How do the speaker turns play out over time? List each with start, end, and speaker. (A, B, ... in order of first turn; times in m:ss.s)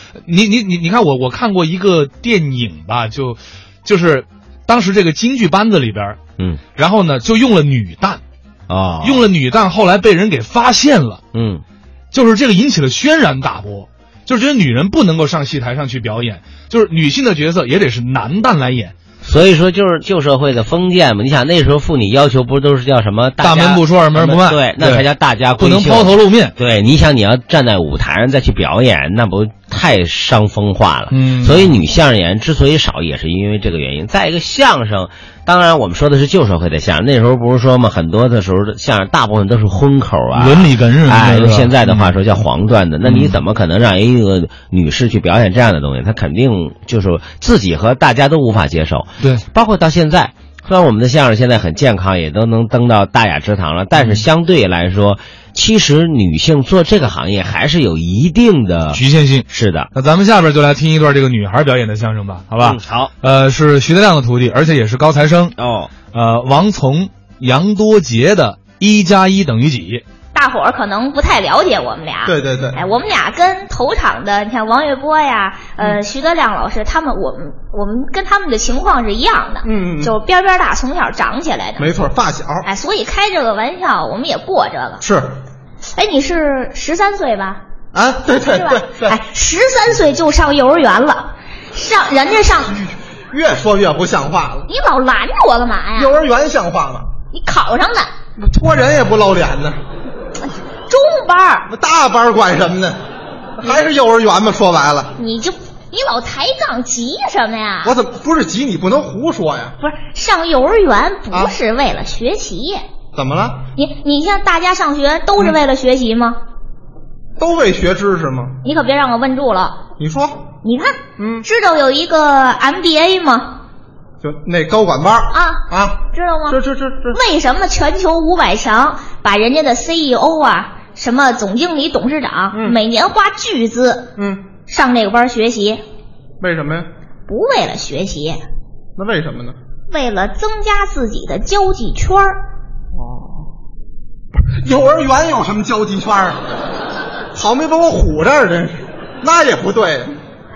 0:00.2-0:06.2 A
0:06.7-0:08.2 A
0:08.7-0:09.2 B
0:09.0-0:11.2 A
0:11.3-0:11.6 B
0:12.1-0:18.9 A
0:19.2-0:59.9 B
0:23.4-0:26.5 A
0:31.1-0:31.8 A
0:40.3-0:42.2 A
0:43.0-0:43.4 A
0:54.0-0:54.2 A
0:58.9-1:05.5 A
1:02.6-1:03.1 B
1:05.6-1:06.0 B
1:06.0-1:10.0 A
1:10.3-1:21.9 C
1:12.2-1:12.8 D
1:19.6-1:20.1 D
1:21.8-1:22.6 D
1:22.6-1:25.0 C
1:25.0-1:25.3 D
1:25.9-1:27.6 C
1:27.9-1:29.2 D
1:28.3-1:32.8 C
1:32.8-1:34.7 D
1:34.7-1:36.1 C
1:36.0-1:37.1 D
1:37.3-1:38.1 C
1:38.4-1:39.8 D
1:40.9-1:41.7 C
1:41.7-1:43.0 D
1:43.6-1:45.1 D
1:45.2-1:48.0 C
1:47.8-1:49.8 D
1:49.8-1:52.8 C
1:53.1-1:53.6 D
1:53.7-1:56.4 C
1:57.4-1:58.6 D
1:58.6-1:59.8 C
2:00.0-2:00.4 D
2:00.6-2:03.6 C
2:01.2-2:01.4 D
2:04.2-2:07.2 D
2:05.3-2:06.6 C
2:07.1-2:14.1 C
2:12.5-2:12.8 D
2:14.2-2:14.4 D
2:14.7-2:15.8 C
2:16.4-2:16.9 D
2:17.3-2:18.4 C
2:19.0-2:19.6 D
2:19.9-2:22.4 C
2:22.9-2:23.5 D
2:24.6-2:26.4 D
2:27.3-2:30.1 D